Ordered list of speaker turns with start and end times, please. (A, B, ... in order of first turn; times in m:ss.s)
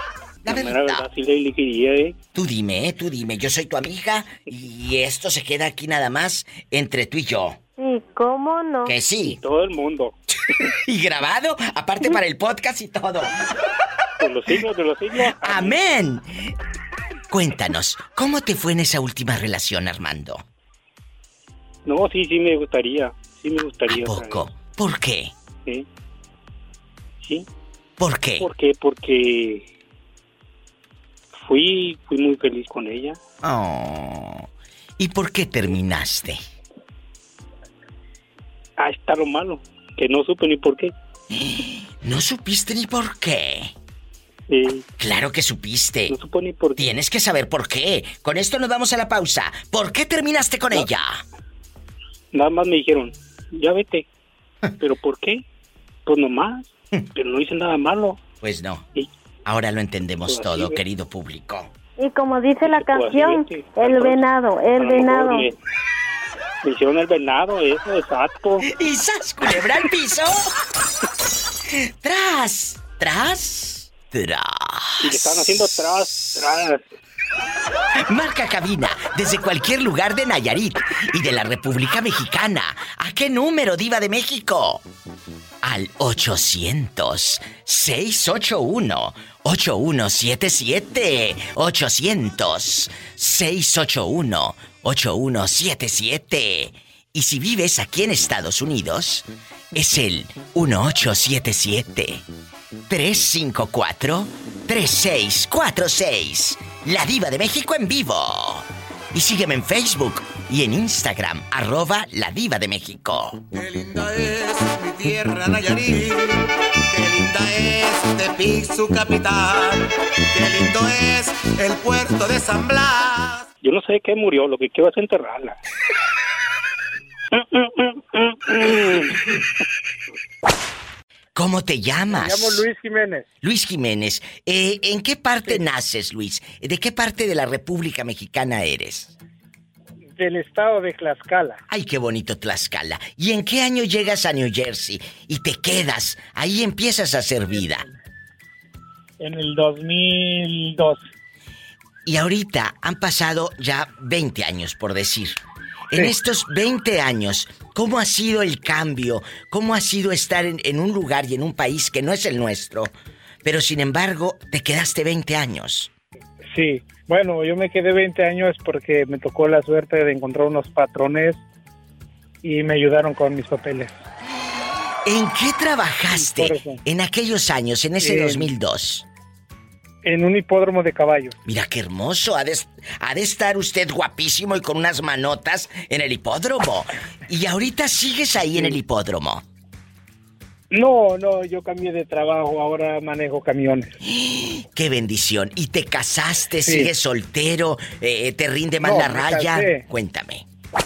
0:00.4-0:02.2 A
0:00.5-0:01.1 B
0:02.4-0:07.6 B
0:07.8-0:09.0 C
0:08.9-0:09.4 B
0:09.2-0:10.1 A
0:10.9-0:13.3 B
0:14.2-0:15.8 A
0:15.4-0:16.3 B
0:17.3-0:20.4 B
0:21.9-0:24.5 A
0:23.9-0:25.3 B
0:28.0-0:28.5 B
0:28.4-0:29.7 A
0:31.4-0:33.2 A
0:33.4-0:34.5 B
0:35.0-0:36.4 B
0:38.8-0:40.9 A
0:41.3-0:43.7 B
0:44.5-0:44.8 A
0:45.0-0:46.2 B
0:46.1-0:46.9 A
0:46.8-0:51.2 B
0:52.3-0:54.1 A
0:54.8-0:55.4 A
0:56.1-0:58.2 A
0:58.4-0:58.8 B
0:59.5-1:01.7 B
1:00.3-1:00.8 A
1:02.0-1:05.5 C
1:02.6-1:04.2 A
1:04.8-1:05.5 A
1:06.6-1:08.6 A
1:08.7-1:10.5 B
1:11.8-1:16.5 B
1:15.0-1:16.9 A
1:18.1-1:24.8 B
1:25.6-1:42.2 B
1:42.9-1:53.4 B
1:53.5-1:56.4 D
1:56.9-2:03.5 D
2:03.6-2:05.6 A
2:07.4-2:09.1 A
2:11.4-2:12.7 B
2:12.2-2:13.2 E
2:13.4-2:19.1 B
2:20.2-2:21.6 E
2:21.7-2:27.9 B
2:29.2-2:31.0 E
2:32.0-2:35.4 B
2:35.9-2:42.9 B
2:43.4-2:45.9 B
2:46.5-2:51.4 E
2:52.4-2:53.9 E
2:55.1-2:59.0 B
2:56.2-2:56.8 E
2:58.0-2:58.5 E
3:00.0-3:01.4 E
3:01.4-3:09.4 B
3:10.7-3:13.9 E
3:14.0-3:20.4 B
3:16.6-3:16.9 E
3:18.8-3:19.8 E